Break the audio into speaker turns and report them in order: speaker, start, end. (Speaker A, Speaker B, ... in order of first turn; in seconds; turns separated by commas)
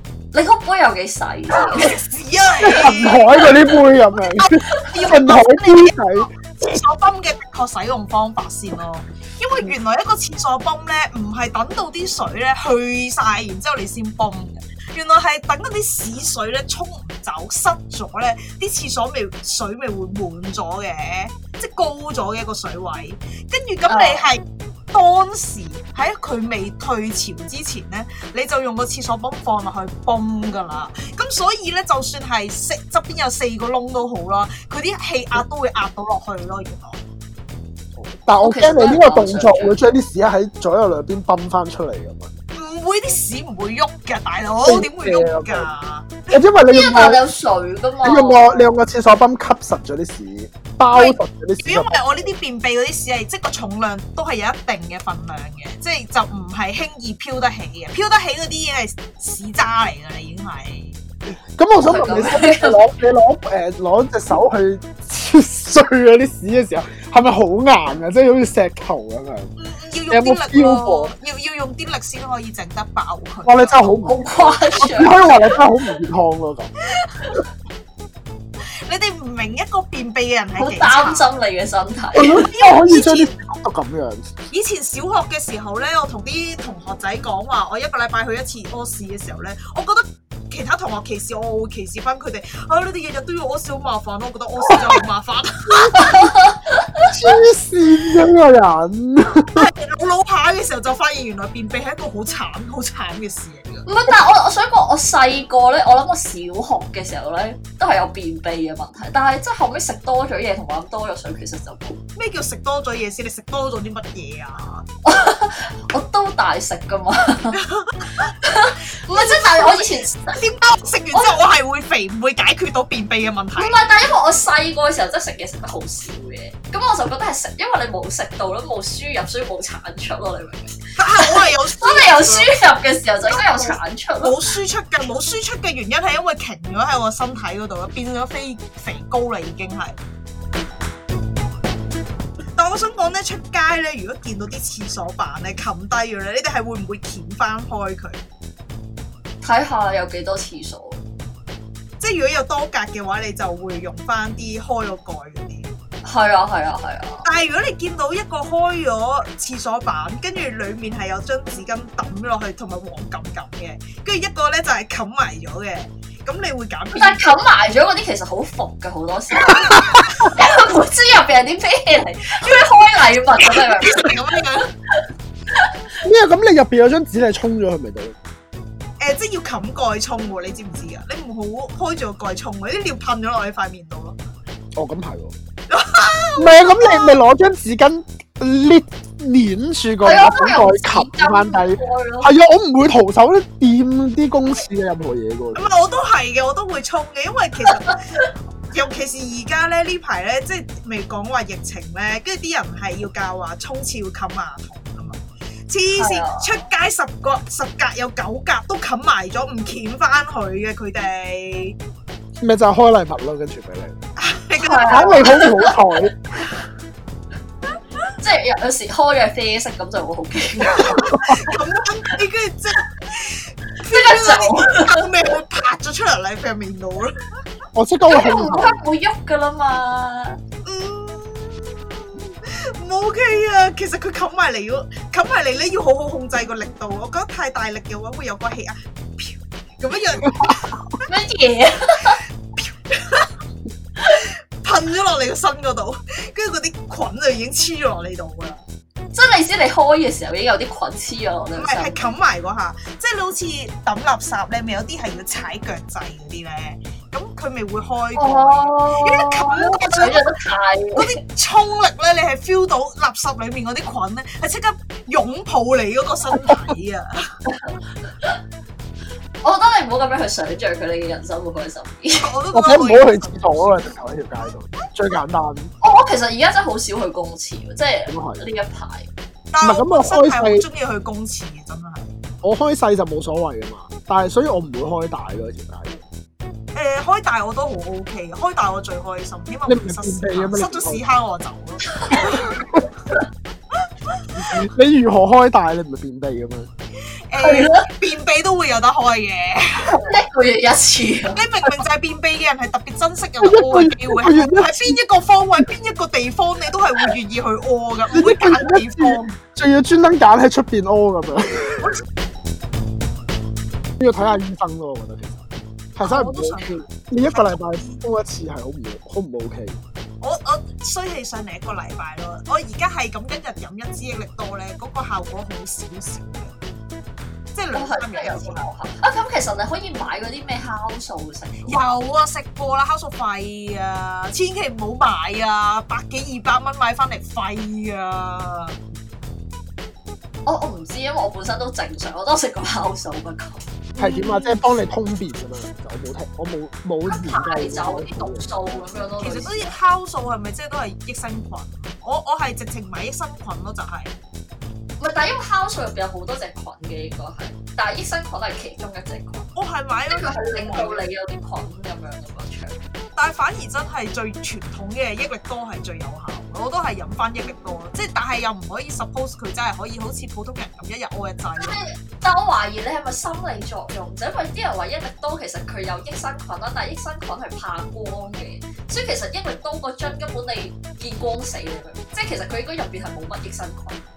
Speaker A: 0.3-1.9, Speaker B: 1.6-3.6, Speaker C: 2.6-6.3, Speaker B: 4.3-37.0, Speaker A: 23.9-24.3, Speaker C: 38.0-42.3, Speaker A: 38.4-39.8, Speaker B: 42.5-46.4, Speaker C: 44.6-45.7, Speaker C: 46.3-47.2, Speaker A: 46.7-48.7, Speaker C: 48.0-52.0, Speaker B: 50.9-61.0, Speaker C: 61.5-69.5, Speaker A: 61.8-62.8, Speaker B: 69.6-74.0, Speaker C: 70.1-71.1, Speaker C: 73.5-76.7, Speaker A: 74.0-75.6, Speaker B: 78.8-81.3, Speaker A: 80.6-82.5, Speaker C: 82.1-84.3, Speaker B: 82.5-83.3, Speaker B: 84.5-96.2, Speaker C: 94.7-95.0, Speaker A: 95.9-97.1, Speaker C: 97.0-99.7, Speaker B: 99.5-103.8, Speaker A: 103.8-112.0, Speaker B: 112.2-114.8, Speaker A: 115.0-117.6, Speaker B: 117.6-118.3, Speaker A: 118.2-120.4, Speaker B: 119.0-123.8, Speaker A: 123.6-134.4, Speaker B: 131.0-132.5, Speaker B: 133.3-140.0, Speaker B: 142.6-148.2, Speaker A: 149.4-151.0, Speaker B: 152.0-155.7, Speaker A: 156.0-157.2, Speaker B: 157.2-167.3, Speaker A: 166.9-174.2, Speaker B: 169.4-170.3, Speaker B: 172.4-174.7, Speaker A: 174.9-175.7, Speaker C: 176.0-178.2, Speaker B: 179.0-184.2, Speaker C: 184.8-185.3, Speaker B: 185.7-187.2, Speaker C: 186.4-195.7, Speaker A: 190.0-192.3, Speaker B: 195.5-198.0, Speaker A: 197.7-198.3, Speaker B: 198.7-211.8, Speaker A: 205.9-206.6, Speaker C: 212.4-213.9, Speaker B: 214.2-215.5, Speaker A: 214.6-215.8, Speaker C: 214.8-216.1, Speaker A: 218.2-221.3, Speaker B: 220.7-227.2, Speaker C: 221.0-221.4, Speaker A: 223.8-225.0, Speaker C: 227.7-228.8, Speaker A: 228.1-230.4, Speaker B: 230.6-240.7, Speaker C: 240.3-240.6, Speaker A: 241.1-242.2, Speaker B: 242.6-243.3, Speaker B: 244.1-248.6, Speaker A: 249.1-252.0, Speaker B: 251.6-260.3, Speaker A: 258.2-261.1, Speaker B: 260.9-267.2, Speaker A: 267.4-268.4, Speaker A: 269.4-272.3, Speaker B: 272.2-273.9, Speaker C: 272.5-275.7, Speaker A: 275.8-279.1, Speaker C: 278.1-278.4, Speaker B: 279.5-282.1, Speaker C: 279.6-280.6, Speaker C: 282.4-286.0, Speaker B: 286.7-292.5, Speaker C: 289.7-291.0, Speaker A: 292.0-292.4, Speaker C: 292.2-292.8, Speaker C: 294.3-296.7, Speaker B: 297.3-300.0, Speaker A: 297.4-297.9, Speaker A: 299.9-301.4, Speaker B: 301.3-309.3, Speaker C: 303.4-305.0, Speaker C: 308.1-311.9, Speaker C: 314.0-315.4, Speaker C: 315.9-319.8, Speaker B: 316.0-318.0, Speaker B: 320.2-326.6, Speaker B: 327.5-328.6, Speaker A: 327.7-331.8, Speaker B: 331.6-338.8, Speaker A: 340.4-343.6, Speaker B: 343.9-344.6, Speaker C: 344.0-348.6, Speaker A: 347.1-349.7, Speaker B: 349.2-354.1, Speaker A: 355.0-359.5, Speaker B: 359.5-361.0, Speaker A: 360.1-362.8, Speaker B: 363.1-371.8, Speaker A: 371.6-384.0